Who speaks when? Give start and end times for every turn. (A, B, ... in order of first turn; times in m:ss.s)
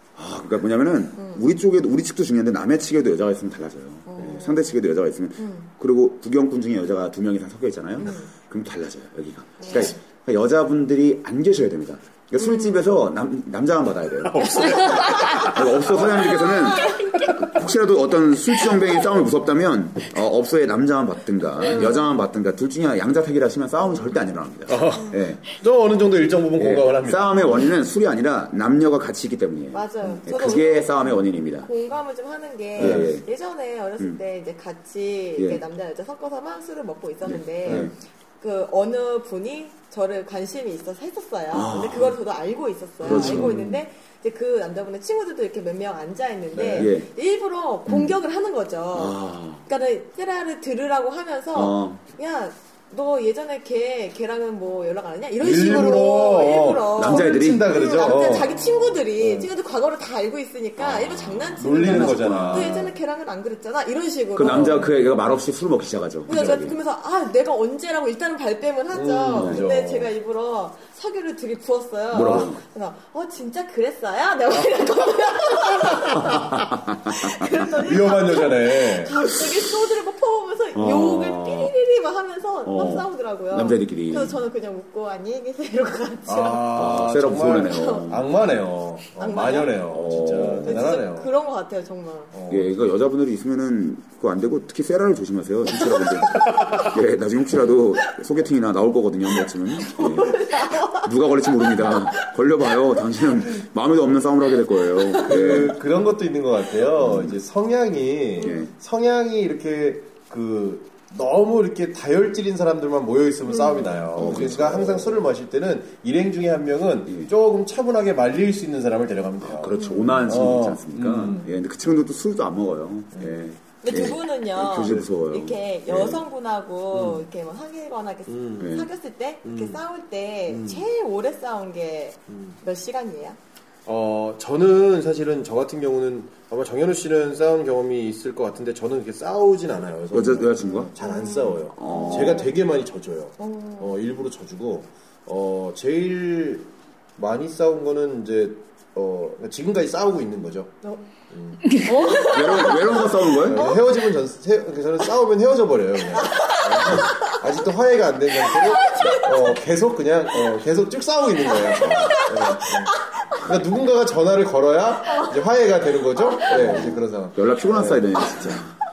0:00.2-0:25.4 A
0:04.1-0:04.7 B
0:05.4-0:05.7 B
0:08.0-0:08.3 B
0:09.6-0:09.9 B
0:12.4-0:12.8 B
0:14.2-0:15.6 C
0:16.1-0:17.3 B
0:21.7-0:22.0 B
0:24.7-0:27.6 C
0:26.6-0:31.7 A
0:29.7-0:31.0 B
0:31.6-1:04.7 B
0:32.8-0:33.3 A
0:32.8-0:33.1 C
0:35.4-0:35.6 A
0:37.2-0:37.9 A
0:37.6-0:37.9 C
0:41.5-0:42.1 A
0:43.0-0:43.8 A
0:43.1-0:43.7 C
0:46.5-0:46.9 C
0:46.8-0:47.1 A
0:47.9-0:48.2 A
0:48.9-0:49.6 A
0:51.5-0:52.0 A
0:55.4-0:59.5 C
0:57.0-0:57.9 A
1:00.8-1:02.9 A
1:01.6-1:02.9 C
1:04.3-1:06.8 A
1:04.4-1:04.9 C
1:06.3-1:26.9 B
1:08.9-1:10.1 C
1:09.4-1:09.7 A
1:12.1-1:12.6 A
1:12.2-1:12.5 C
1:16.1-1:17.7 A
1:17.8-1:19.2 C
1:20.8-1:21.7 A
1:22.6-1:24.4 A
1:26.3-1:31.3 C
1:26.7-1:28.3 A
1:27.6-1:28.1 B
1:29.2-1:32.3 B
1:29.9-1:30.9 A
1:32.3-1:32.8 C
1:32.5-1:45.8 A
1:36.4-1:36.9 C
1:39.8-1:41.1 B
1:41.7-1:42.1 B
1:45.2-2:01.5 C
1:47.0-1:47.4 A
1:48.4-1:48.7 A
1:53.5-1:54.0 B
1:54.2-1:55.3 A
1:59.4-2:06.2 A
1:59.8-2:00.2 B
2:03.8-2:13.4 B
2:06.9-2:07.2 C
2:08.3-2:08.8 C
2:08.6-2:08.9 A
2:09.4-2:09.8 C
2:10.5-2:10.8 C
2:12.3-2:12.6 C
2:13.9-2:30.8 C
2:20.1-2:20.9 A
2:20.6-2:22.5 B
2:21.7-2:22.5 A
2:23.4-2:24.0 B
2:31.3-2:48.6 C
2:31.7-2:33.8 B
2:32.1-2:33.7 A
2:36.2-2:37.2 B
2:38.5-2:39.6 B
2:41.7-2:43.4 B
2:41.8-2:42.2 A
2:46.5-2:48.8 A